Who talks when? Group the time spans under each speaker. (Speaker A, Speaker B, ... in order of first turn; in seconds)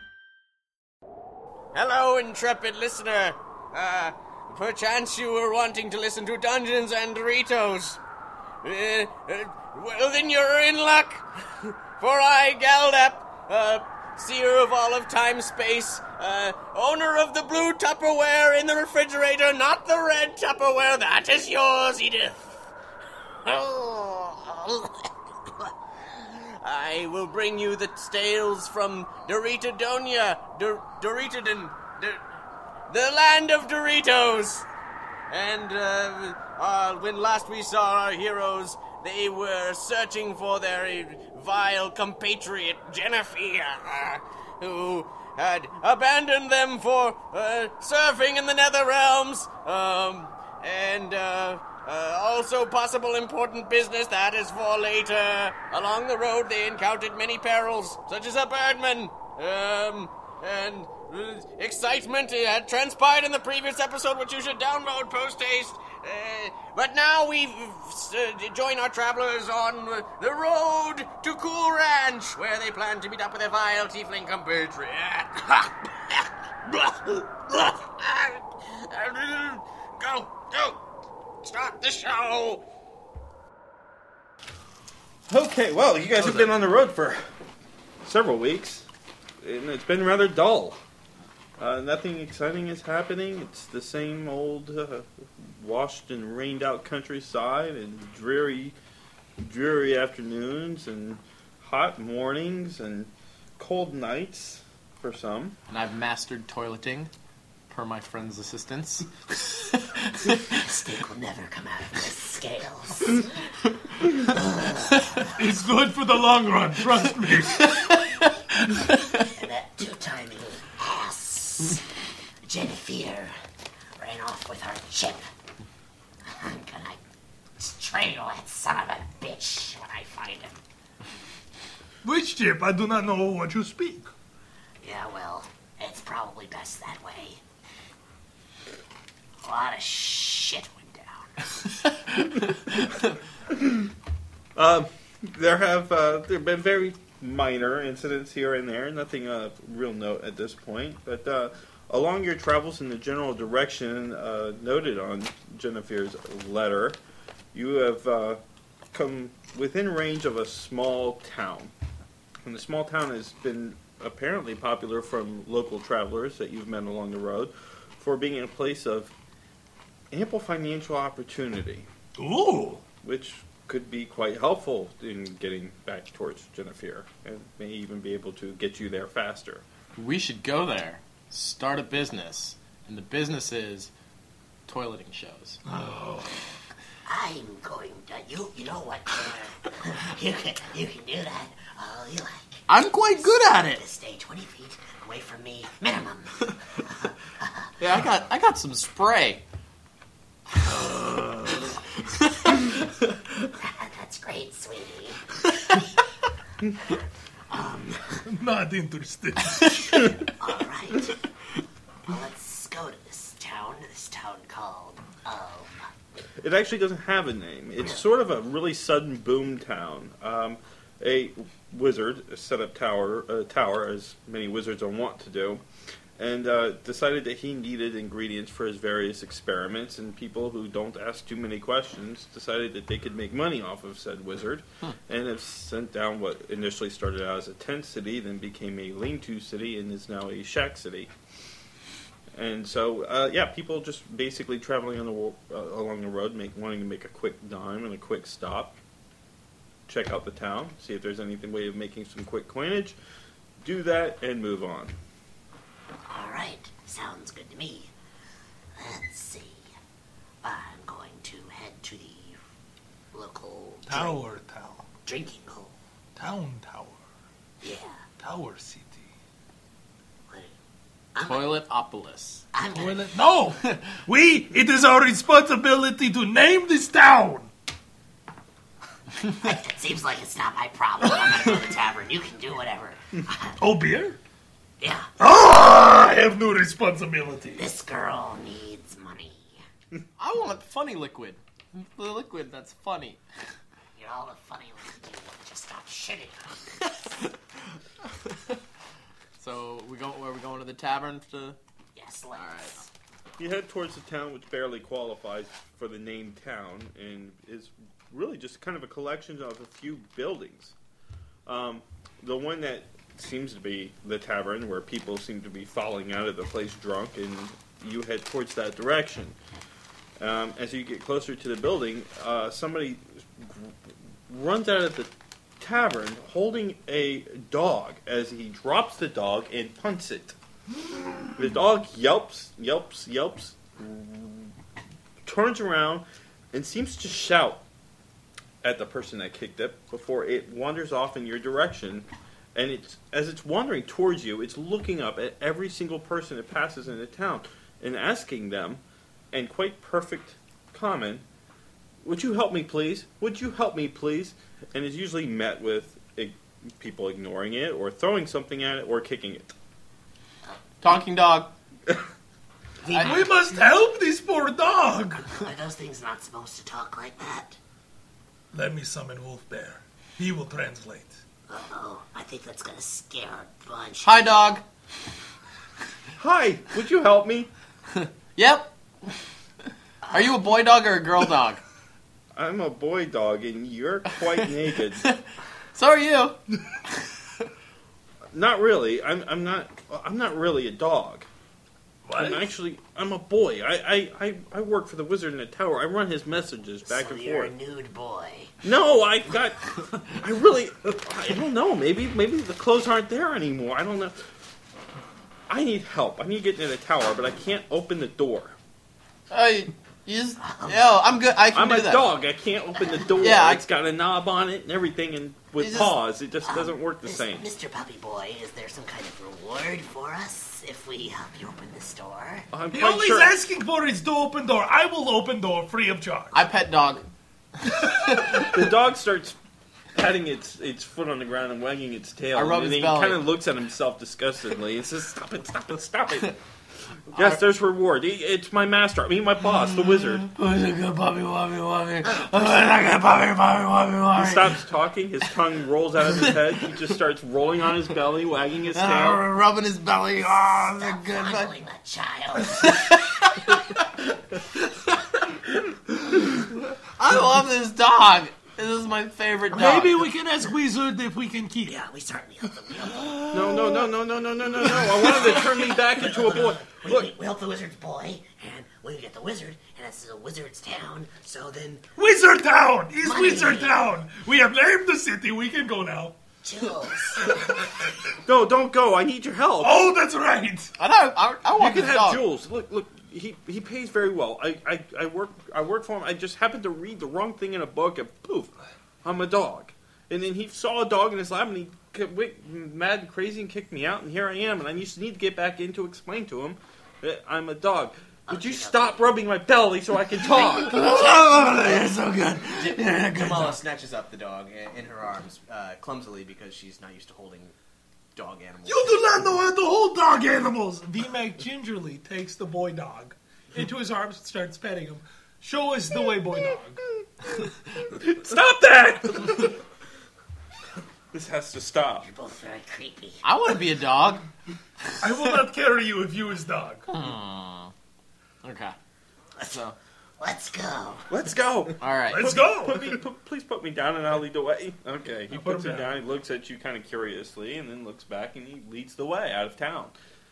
Speaker A: 1.7-8.0, 8.6-11.3, 12.0-22.5, 23.4-25.0, 26.4-32.2, 32.9-34.7, 35.3-80.8, 81.4-82.6
Speaker B: 85.3-87.3, 88.0-88.9, 89.4-90.8, 91.6-98.8, 99.4-105.6, 144.6-157.0, 157.5-158.4, 158.9-161.7, 162.4-169.1, 170.1-171.9, 173.0-179.6, 216.4-225.6, 226.2-241.1, 242.4-248.8, 249.9-253.0, 253.6-255.0, 303.4-310.8, 311.5-319.4, 320.2-330.4, 331.4-334.6, 335.2-337.6, 338.6-351.2, 352.0-359.5, 376.2-377.5, 382.4-385.1, 388.3-391.3, 392.1-397.5, 398.6-404.2, 405.5-408.6, 411.5-417.5, 422.5-423.4, 428.4-429.4, 429.9-436.4, 437.1-440.3, 444.1-449.3, 463.3-467.1, 478.2-479.9, 481.6-488.5, 489.0-500.8, 518.0-519.4, 521.1-522.1, 531.1-539.9
Speaker C: 105.7-107.1, 107.7-110.4, 180.0-183.9, 184.7-185.6, 192.7-193.8, 197.8-199.4, 201.6-202.3, 271.2-272.4, 290.2-293.2, 299.4-301.6, 302.4-302.8, 360.8-361.5, 362.9-363.2, 374.0-374.6, 378.0-379.2, 380.1-381.6, 385.8-386.4, 409.3-412.1, 413.2-413.6, 415.6-415.9, 426.3-427.1, 427.8-428.2, 432.4-433.3, 440.2-444.6, 448.7-451.5, 452.5-453.9, 454.5-455.3, 457.0-460.1, 480.8-482.2, 500.7-503.4, 523.2-524.3, 526.9-527.7, 528.4-528.8, 529.4-529.8, 531.8-532.3
Speaker D: 110.5-113.3, 114.3-115.3, 119.2-121.8, 122.5-123.3, 124.0-125.3, 126.2-127.0, 127.6-130.6, 134.8-137.4, 139.4-141.6, 187.1-192.7, 193.2-197.7, 203.6-205.2, 207.5-208.2, 210.4-211.2, 212.1-215.9, 256.1-257.9, 258.8-259.7, 260.4-262.4, 263.1-264.2, 265.1-265.8, 267.6-268.0, 271.1-271.6, 272.5-273.1, 279.3-283.6, 284.8-285.1, 287.6-289.6, 294.0-296.9, 301.9-302.9, 362.8-363.4, 365.3-367.6, 371.5-374.6, 380.0-380.5, 396.8-398.5, 410.4-410.9, 412.8-413.1, 416.4-422.5, 442.1-442.6, 450.4-452.9, 461.7-463.3, 464.7-471.9, 473.0-473.9, 476.4-477.7, 498.3-499.2, 522.0-523.2, 530.2-531.1
Speaker E: 115.3-117.9, 132.0-134.1, 172.2-172.9, 185.7-186.4, 200.7-201.2, 208.3-210.1, 263.9-264.9, 266.2-267.0, 268.2-269.1, 272.8-277.5, 283.6-284.2, 285.2-287.7, 362.9-365.3, 368.5-371.2, 392.1-392.5, 422.7-426.4, 459.5-461.8, 472.0-476.1, 477.0-477.7, 479.6-480.7, 508.7-516.8, 525.0-526.9, 532.1-533.0, 535.3-536.0
Speaker F: 502.6-507.6, 508.1-509.0